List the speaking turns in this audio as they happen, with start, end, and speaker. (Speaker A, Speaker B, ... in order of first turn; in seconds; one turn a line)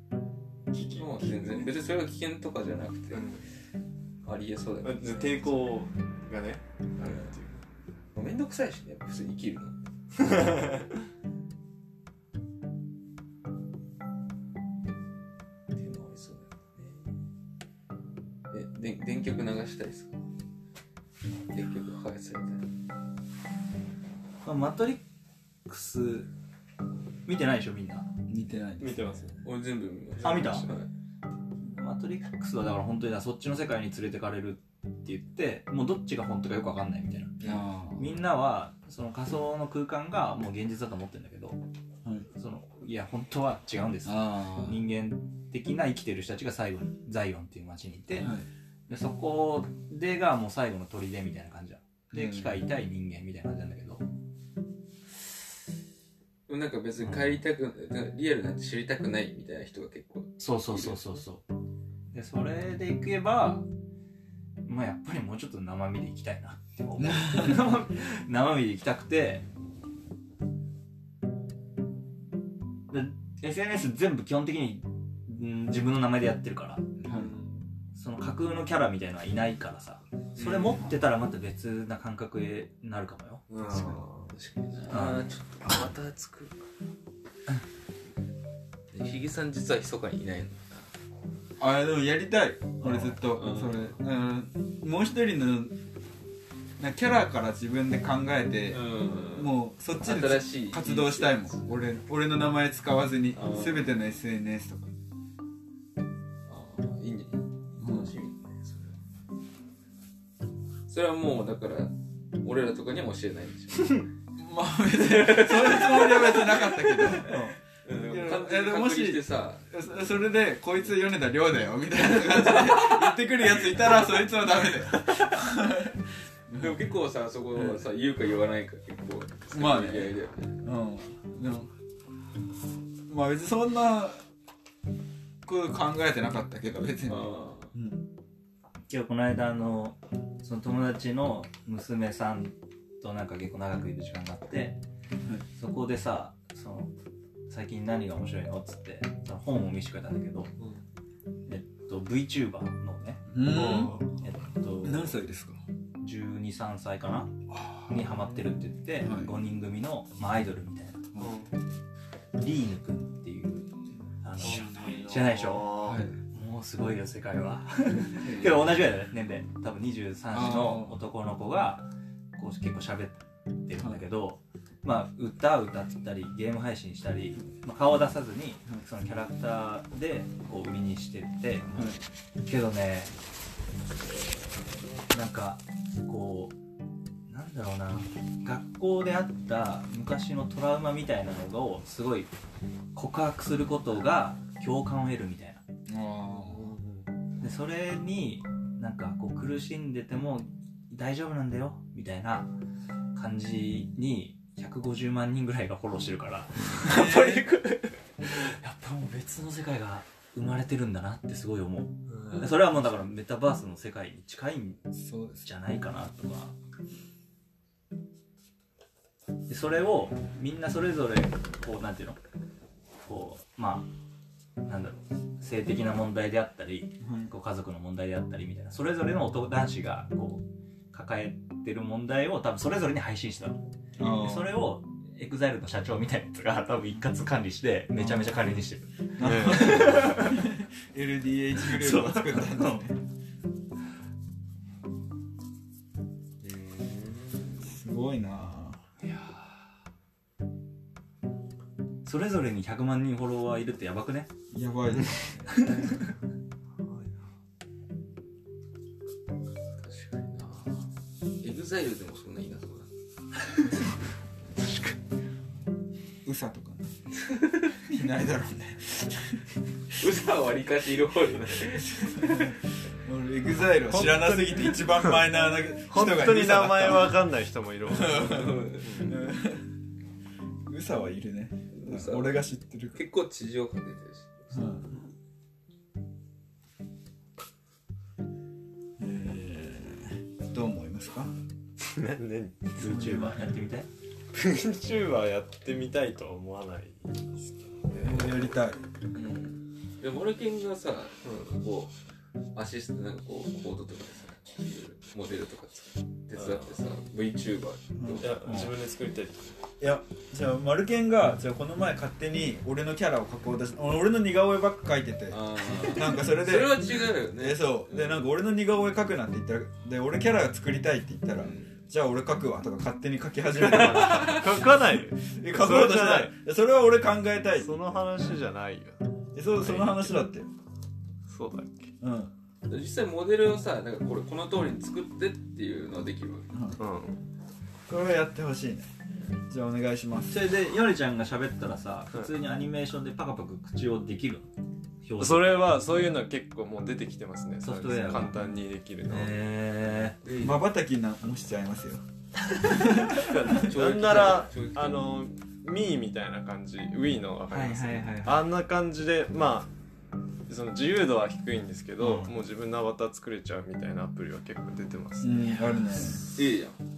Speaker A: 0.7-1.8
Speaker B: 0.9-3.3
Speaker A: 3.1-3.4
Speaker B: 4.2-5.7
Speaker A: 4.8-7.6
Speaker B: 7.0-7.3
Speaker B: 8.1-9.8
Speaker A: 10.2-10.9
Speaker B: 15.7-17.0
Speaker B: 18.5-20.2
Speaker B: 21.5-22.6
Speaker C: 24.4-25.0
Speaker C: 25.6-26.3
Speaker C: 27.2-28.1
Speaker D: 28.3-29.3
Speaker A: 28.8-29.4
Speaker B: 29.4-30.9
Speaker A: 30.2-30.7
Speaker C: 30.2-30.7
Speaker C: 31.7-41.6
Speaker D: 37.4-38.2
Speaker C: 42.3-48.3
Speaker D: 44.0-44.8
Speaker D: 48.2-48.5
Speaker C: 48.9-54.0
Speaker D: 52.1-52.6
Speaker B: 56.5-61.2
Speaker C: 60.4-61.4
Speaker C: 62.1-63.7
Speaker C: 64.6-69.4
Speaker D: 67.0-67.8
Speaker C: 72.9-76.8
Speaker D: 77.0-77.3
Speaker A: 77.1-77.6
Speaker C: 77.9-83.9
Speaker B: 80.3-80.9
Speaker A: 83.5-84.3
Speaker D: 83.7-84.0
Speaker B: 84.3-86.6
Speaker C: 84.9-85.3
Speaker B: 88.9-90.9
Speaker D: 91.6-95.8
Speaker B: 92.8-93.8
Speaker D: 96.8-104.9
Speaker B: 98.7-101.6
Speaker B: 103.3-104.0
Speaker B: 106.5-109.0
Speaker D: 107.8-108.1
Speaker B: 110.9-114.1
Speaker D: 114.4-117.4
Speaker B: 114.9-119.7
Speaker C: 117.2-117.6
Speaker D: 118.0-126.9
Speaker B: 122.2-125.4
Speaker B: 126.5-130.6
Speaker D: 127.5-127.8
Speaker D: 129.5-131.7
Speaker D: 133.1-134.2
Speaker D: 135.4-138.0
Speaker B: 137.1-137.7
Speaker C: 138.9-144.8
Speaker C: 145.6-146.9
Speaker C: 147.5-150.5
Speaker C: 151.4-153.3
Speaker D: 153.3-154.0
Speaker A: 153.4-154.1
Speaker C: 154.2-155.1
Speaker D: 154.8-155.6
Speaker C: 156.0-161.1
Speaker D: 157.5-158.1
Speaker D: 159.0-159.4
Speaker A: 161.2-161.5
Speaker C: 162.4-165.7
Speaker D: 164.4-165.1
Speaker A: 164.4-166.1
Speaker D: 165.8-166.2
Speaker C: 166.3-183.1
Speaker D: 168.2-168.6
Speaker B: 168.3-168.6
Speaker D: 170.3-171.0
Speaker D: 181.7-182.0
Speaker C: 185.1-186.6
Speaker C: 187.3-192.3
Speaker C: 192.9-195.6
Speaker D: 195.9-196.8
Speaker A: 196.3-197.1
Speaker C: 197.4-202.6
Speaker C: 203.1-214.9
Speaker D: 206.8-207.5
Speaker A: 212.1-212.6
Speaker D: 214.9-215.4
Speaker C: 215.4-216.6
Speaker C: 219.5-222.2
Speaker C: 223.0-223.9
Speaker C: 224.6-240.5
Speaker D: 227.0-227.3
Speaker D: 234.0-234.6
Speaker D: 237.9-238.6
Speaker D: 239.2-243.0
Speaker A: 239.2-240.0
Speaker C: 241.6-242.8
Speaker B: 246.4-247.7
Speaker D: 247.6-248.8
Speaker C: 249.0-249.5
Speaker C: 252.0-254.3
Speaker D: 254.5-255.8
Speaker A: 256.8-257.2
Speaker B: 259.8-262.9
Speaker A: 264.6-264.9
Speaker D: 266.2-266.9
Speaker D: 267.8-269.4
Speaker B: 270.0-272.6
Speaker D: 271.7-277.2
Speaker A: 273.7-275.2
Speaker A: 275.9-279.2
Speaker D: 277.9-279.7
Speaker B: 278.2-279.2
Speaker D: 280.6-283.0
Speaker B: 281.7-285.0
Speaker D: 284.5-284.9
Speaker D: 289.0-291.4
Speaker A: 291.8-292.8
Speaker C: 292.8-293.9
Speaker D: 292.8-293.6
Speaker A: 294.3-298.6
Speaker D: 298.0-298.8
Speaker B: 299.1-301.9
Speaker A: 301.2-301.6
Speaker B: 302.5-308.6
Speaker A: 306.3-306.8
Speaker D: 308.0-308.3
Speaker A: 308.2-309.5
Speaker C: 308.5-308.7
Speaker D: 309.8-328.4
Speaker B: 315.3-318.2
Speaker B: 321.4-321.8
Speaker A: 323.5-326.3
Speaker A: 327.5-330.2
Speaker D: 329.3-330.5
Speaker A: 331.3-331.9
Speaker D: 332.0-332.3
Speaker B: 332.6-336.5
Speaker D: 336.5-336.8
Speaker A: 336.8-337.2
Speaker D: 337.9-338.9
Speaker D: 339.5-340.4
Speaker C: 340.3-344.5
Speaker C: 345.0-345.8
Speaker A: 345.2-349.4
Speaker C: 347.6-348.5
Speaker C: 349.1-350.2
Speaker B: 350.2-350.6
Speaker D: 350.4-352.0
Speaker D: 352.6-353.4
Speaker A: 353.1-359.7
Speaker B: 353.5-355.1
Speaker C: 357.5-358.4
Speaker A: 360.5-365.4
Speaker C: 362.0-362.3
Speaker D: 365.2-366.2
Speaker B: 366.2-366.8